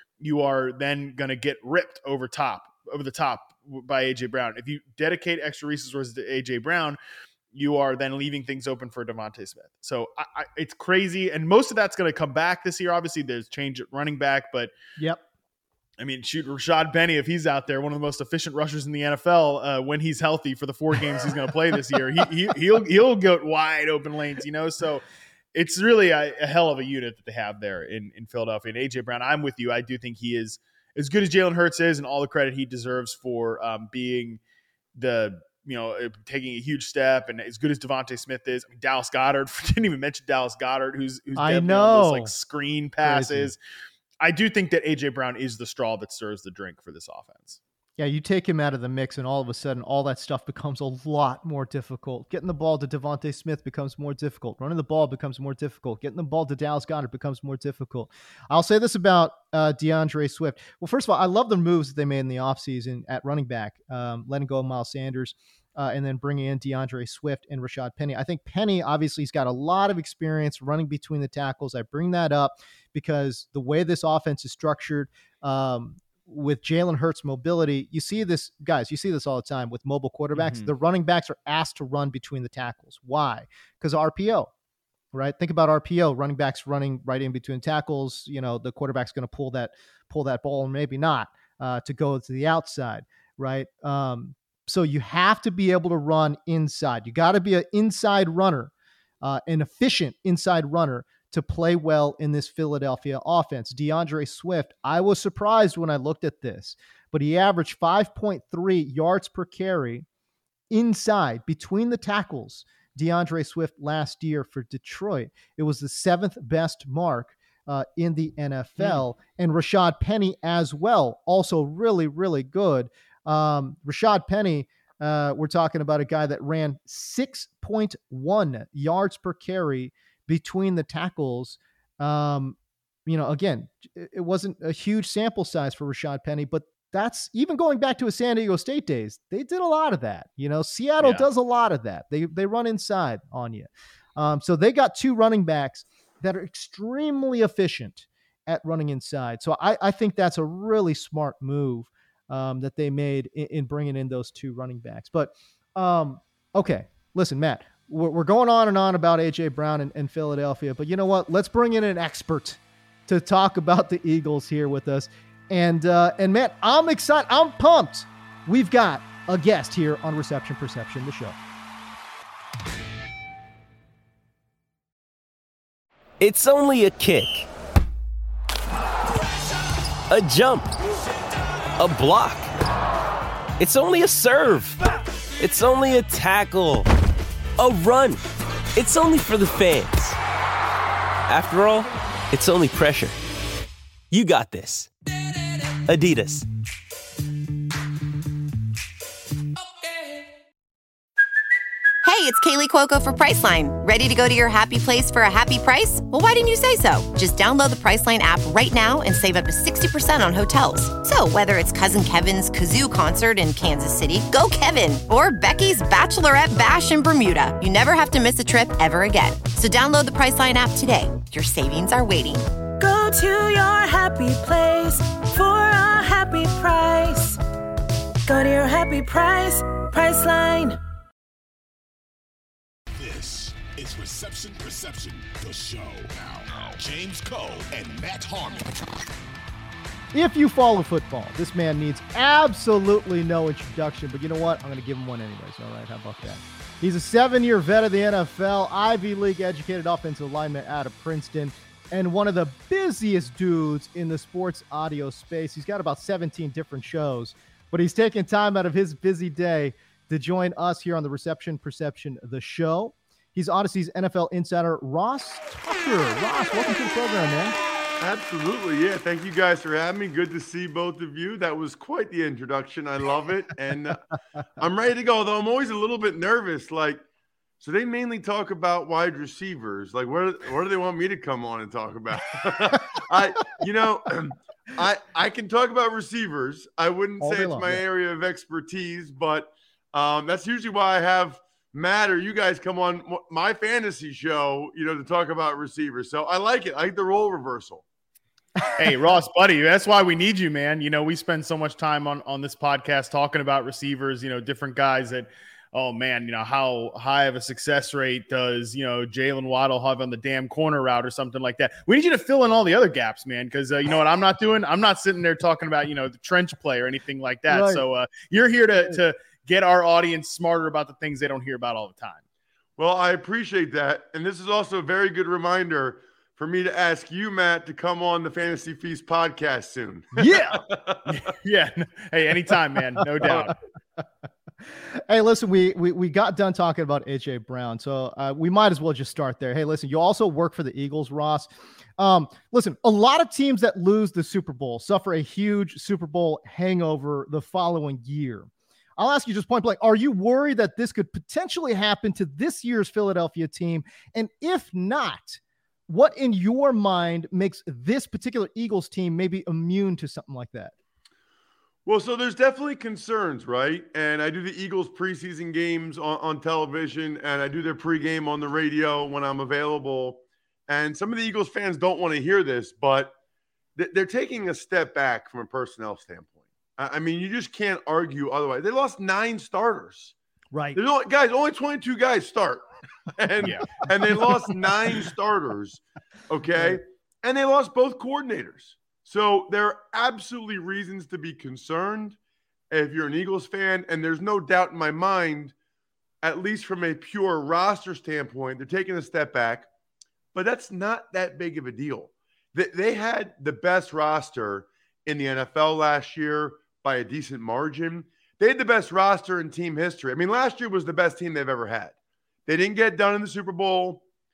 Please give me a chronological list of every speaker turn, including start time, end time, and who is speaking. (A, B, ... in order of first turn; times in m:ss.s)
0:00.2-0:07.0 A
0:07.5-0:14.7 A
0:16.0-0:25.0 A
0:25.6-0:34.4 A
0:35.0-0:43.6 A
0:41.4-0:42.3 B
0:43.0-0:43.5 B
0:44.2-0:47.6 A
0:48.0-1:24.5 B
1:20.4-1:20.7 A
1:25.1-1:50.1 B
1:50.7-2:51.4 B
2:56.2-2:57.5 C
3:00.1-3:00.8 C
3:01.8-3:02.5 C
3:03.6-3:04.8 C
3:05.4-3:06.9 C
3:07.6-3:08.2 C
3:08.8-3:10.2 C
3:11.3-3:13.2 C
3:14.1-3:14.9 C
3:15.9-3:16.5 C
3:22.0-3:42.4 D
3:42.8-3:47.4 E
3:48.3-3:50.8 E
3:52.9-3:59.0 F
4:00.1-4:27.6 B
4:28.0-4:34.0 G
4:34.6-4:37.0 G
4:37.6-4:57.8 G
4:47.2-4:47.8 B
4:58.8-5:22.2 A
5:17.5-5:17.9 B
5:22.8-5:31.3 G
5:30.2-5:30.6 B
5:31.1-5:33.6 A
5:33.2-5:34.0 B
5:34.7-6:00.7 B
6:01.9-6:13.2 G
6:13.8-6:20.1 G
6:20.5-6:20.8 B
6:20.8-6:22.6 G
6:23.2-6:32.2 G
6:23.4-6:23.7 A
6:32.7-6:35.5 G
6:36.2-6:39.7 G
6:40.3-6:52.0 G
6:52.5-6:54.0 G